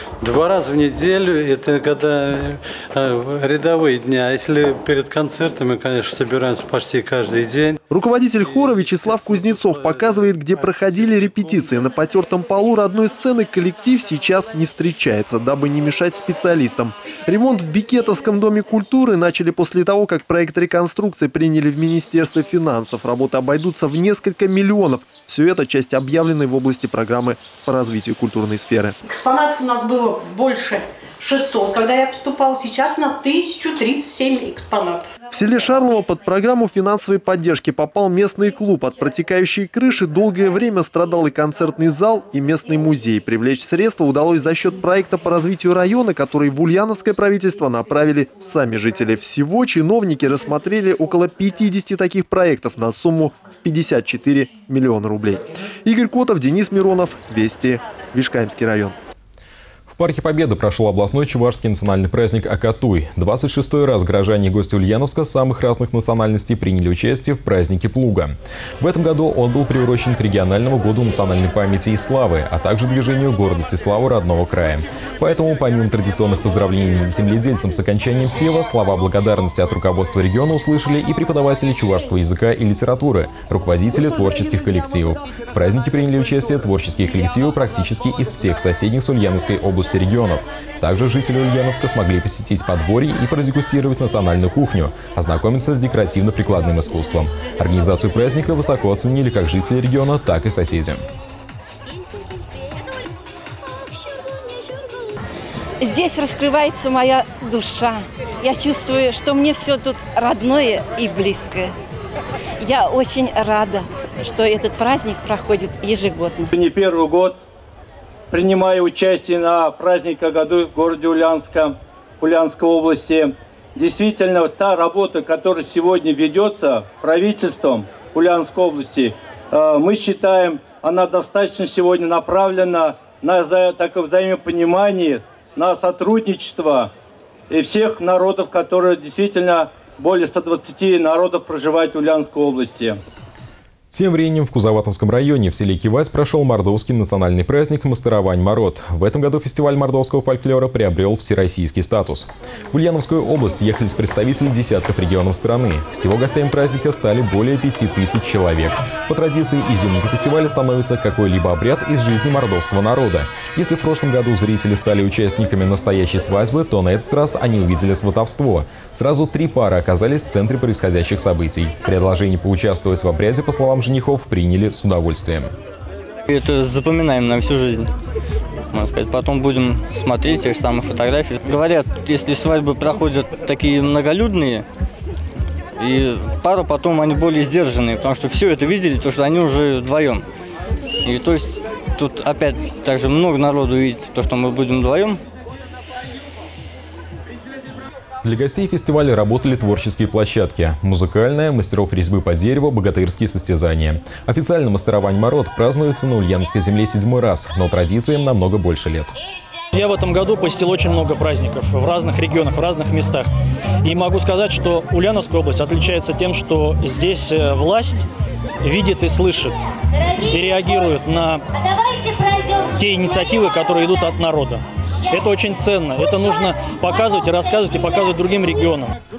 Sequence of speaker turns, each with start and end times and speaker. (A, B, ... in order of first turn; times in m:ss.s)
0:00.2-0:07.8 A
0:07.9-0:28.9 B
0:08.4-0:11.6 A
0:29.1-0:35.0 C
0:35.3-0:58.9 B
0:59.9-1:41.0 D
1:45.8-1:51.7 E
1:52.6-1:56.4 E
1:56.5-1:57.4 F
1:58.3-2:16.9 F
2:17.5-2:23.0 F
2:23.9-2:55.5 D
2:56.3-2:57.9 G
2:58.7-3:04.6 G
3:05.8-3:10.2 G
3:11.0-3:15.2 G
3:18.2-3:29.1 D
3:29.7-3:33.3 H
3:33.8-3:38.0 H
3:38.6-3:39.6 H
3:40.3-3:41.4 H
3:42.7-3:48.9 H